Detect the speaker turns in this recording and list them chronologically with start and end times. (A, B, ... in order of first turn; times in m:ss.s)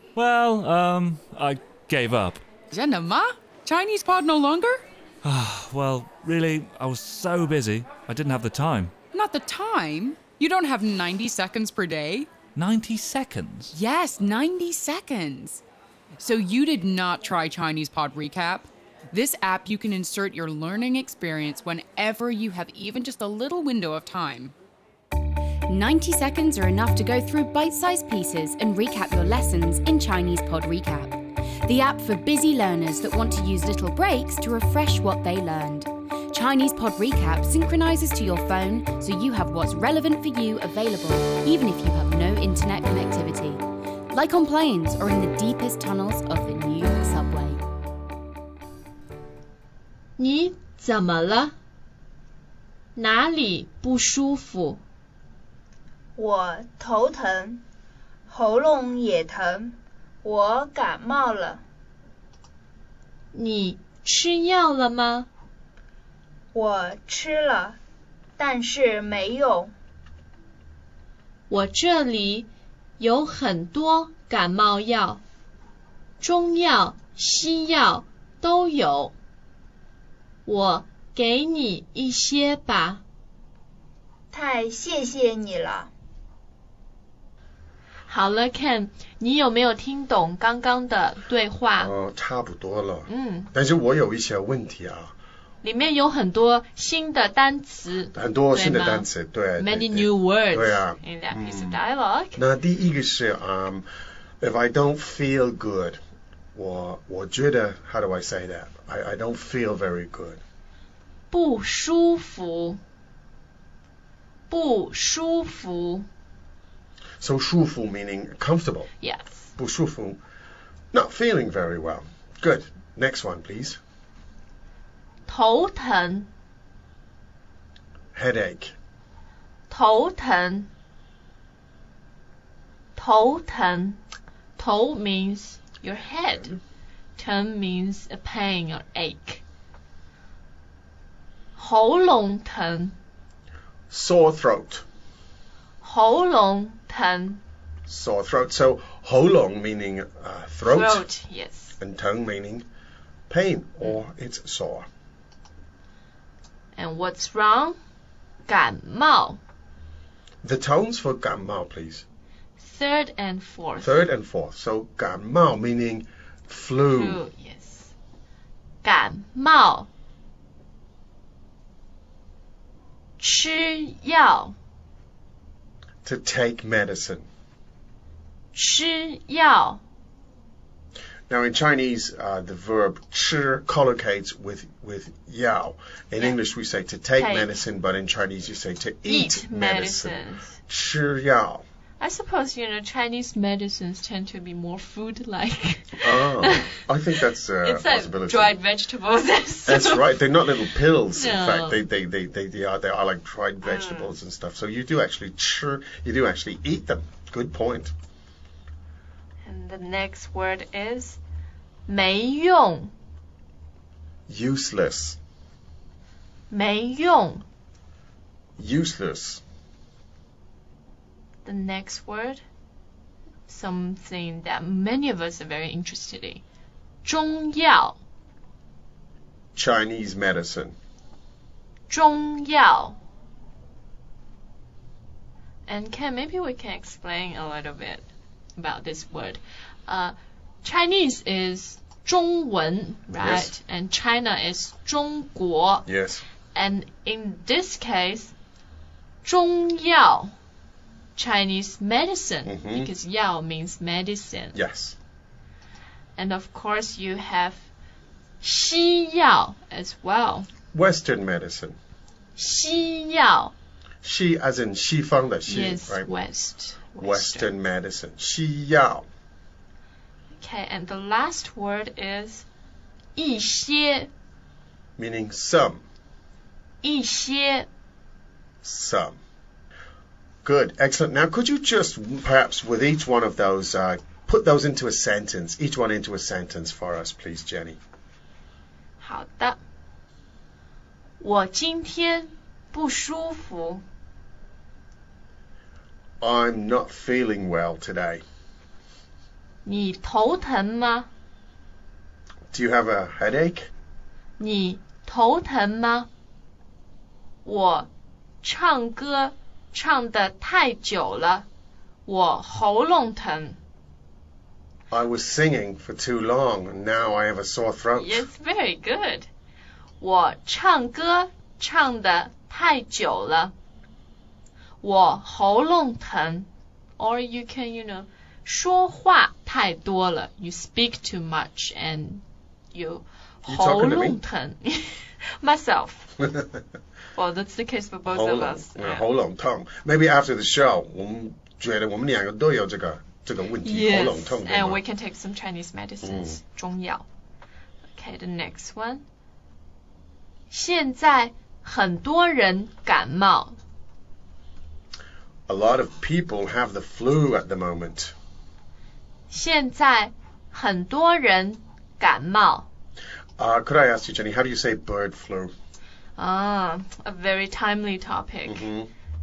0:00.2-0:02.4 A
0:02.7-0:04.8 B
0:05.2-0:08.9 A
0:09.1-0:12.4 B
0:12.6-0:13.7 A
0:13.7-0:15.6 B
0:16.2-0:24.5 B
0:25.7-0:47.6 C
0:50.2-0:51.6 D
0:53.0-0:54.8 D
0:56.2-0:57.6 E
0:58.3-1:01.6 E
1:03.3-1:05.3 D
1:06.5-1:07.8 E
1:08.4-1:09.7 E
1:11.5-1:15.2 D
1:16.2-1:19.2 D
1:20.4-1:23.0 D
1:24.3-1:25.9 E
1:28.1-1:31.9 D
1:31.8-1:35.1 F
1:33.1-1:33.5 D
1:35.6-1:42.4 D
1:38.1-1:41.8 F
1:42.4-1:43.9 F
1:44.4-1:46.0 F
1:46.5-1:50.4 F
1:51.3-1:52.8 D
1:54.5-1:56.1 D
1:57.2-1:58.9 F
1:59.0-1:59.5 D
1:59.6-2:00.2 F
2:00.9-2:03.8 F
2:05.3-2:06.3 D
2:08.1-2:08.8 F
2:09.7-2:10.7 D
2:13.0-2:14.0 D
2:14.6-2:16.6 D
2:17.2-2:19.4 D
2:21.6-2:23.0 D
2:23.9-2:24.8 F
2:25.8-2:27.4 D
2:27.9-2:31.1 F
2:30.7-2:31.8 D
2:31.8-2:32.7 F
2:33.3-2:34.9 F
2:36.8-2:37.8 D
2:38.5-2:39.4 D
2:40.4-2:42.0 F
2:42.6-2:44.0 D
2:43.8-2:47.2 F
2:46.9-2:47.9 D
2:48.8-2:49.9 D
2:53.2-2:54.6 D
2:56.0-2:57.3 F
2:58.5-2:59.8 D
3:01.3-3:11.6 F
3:07.2-3:07.5 D
3:09.1-3:10.6 D
3:12.0-3:16.7 D
3:16.0-3:18.6 F
3:17.6-3:20.2 D
3:19.7-3:27.9 F
3:21.1-3:21.8 D
3:23.6-3:24.1 D
3:29.4-3:31.2 D
3:31.9-3:32.9 D
3:34.3-3:35.2 F
3:36.5-3:37.4 D
3:38.6-3:39.4 F
3:41.4-3:42.4 D
3:43.5-3:46.4 D
3:47.0-3:48.0 D
3:49.6-3:50.8 F
3:51.9-3:53.0 D
3:55.7-4:05.9 D
4:03.2-4:03.5 F
4:05.9-4:06.2 F
4:06.5-4:08.3 D
4:09.2-4:10.3 D
4:11.2-4:14.6 D
4:12.5-4:12.9 F
4:14.5-4:15.0 F
4:16.2-4:17.7 D
4:18.4-4:20.5 D
4:20.7-4:21.8 F
4:22.4-4:23.5 D
4:24.0-4:26.1 F
4:25.5-4:27.5 D
4:27.0-4:29.1 F
4:30.3-4:32.4 D
4:33.2-4:34.1 D
4:35.0-4:35.8 F
4:36.8-4:37.7 D
4:38.6-4:39.2 F
4:40.4-4:47.8 F
4:49.0-4:49.6 D
4:51.2-4:53.8 D
4:56.2-4:58.2 F
4:59.6-5:01.1 D
5:02.5-5:03.7 F
5:04.4-5:06.1 D
5:07.4-5:07.9 D
5:08.4-5:11.5 D
5:12.1-5:13.6 D
5:14.9-5:18.3 F
5:18.0-5:19.3 D
5:20.0-5:23.5 D
5:24.8-5:36.1 D
5:33.5-5:34.2 F
5:37.2-5:39.1 D
5:38.1-5:44.8 F
5:43.6-5:47.1 D
5:46.0-5:46.4 F
5:47.9-5:49.0 D
5:50.5-5:53.6 D
5:55.5-5:58.1 F
5:59.3-6:02.7 D
6:03.4-6:05.5 F
6:06.2-6:08.7 D
6:08.5-6:08.9 F